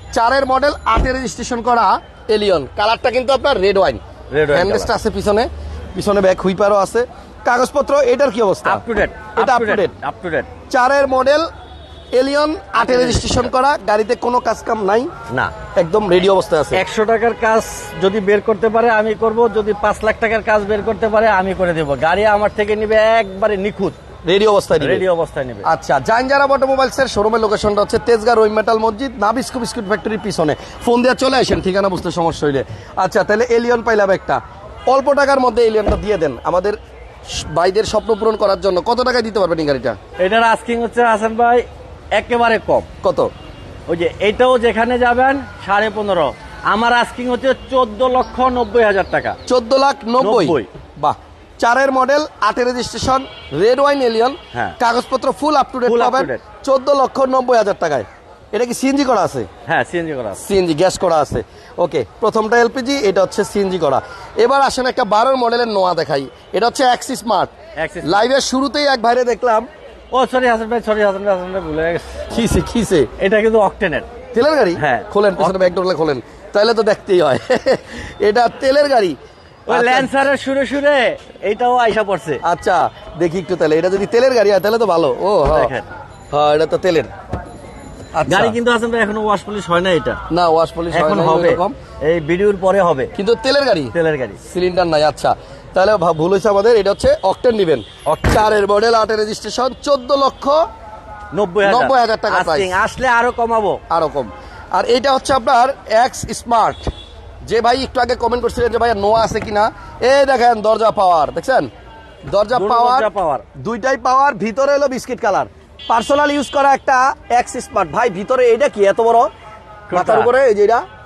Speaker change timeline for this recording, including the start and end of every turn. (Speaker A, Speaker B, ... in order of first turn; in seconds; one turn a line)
Speaker A: 0.1-8.8
Speaker B: 4.3-4.9
Speaker B: 8.6-10.5
Speaker A: 9.3-9.9
Speaker A: 10.7-11.5
Speaker A: 12.1-15.1
Speaker B: 12.7-13.5
Speaker B: 15.3-15.5
Speaker A: 15.7-16.8
Speaker B: 16.7-24.0
Speaker A: 24.2-25.1
Speaker B: 24.8-25.7
Speaker A: 25.6-40.0
Speaker B: 40.2-42.9
Speaker A: 43.0-43.3
Speaker B: 43.9-49.4
Speaker A: 49.5-59.5
Speaker B: 50.2-50.7
Speaker B: 55.9-56.4
Speaker B: 59.7-60.4
Speaker A: 60.4-69.7
Speaker B: 67.8-68.2
Speaker B: 70.1-72.4
Speaker A: 72.3-73.1
Speaker B: 73.2-74.1
Speaker A: 74.3-79.2
Speaker B: 74.8-75.7
Speaker B: 79.7-82.4
Speaker A: 79.7-80.3
Speaker A: 82.4-85.7
Speaker B: 85.5-85.9
Speaker A: 86.3-87.1
Speaker A: 88.1-88.5
Speaker B: 88.2-90.2
Speaker A: 90.3-91.8
Speaker B: 90.9-93.1
Speaker A: 93.2-100.6
Speaker B: 93.9-94.4
Speaker B: 98.0-98.5
Speaker B: 101.3-103.8
Speaker A: 101.6-102.7
Speaker A: 103.9-106.9
Speaker A: 107.4-111.7
Speaker A: 112.3-119.3
Speaker B: 112.5-113.4
Speaker B: 119.9-120.3
Speaker A: 119.9-120.8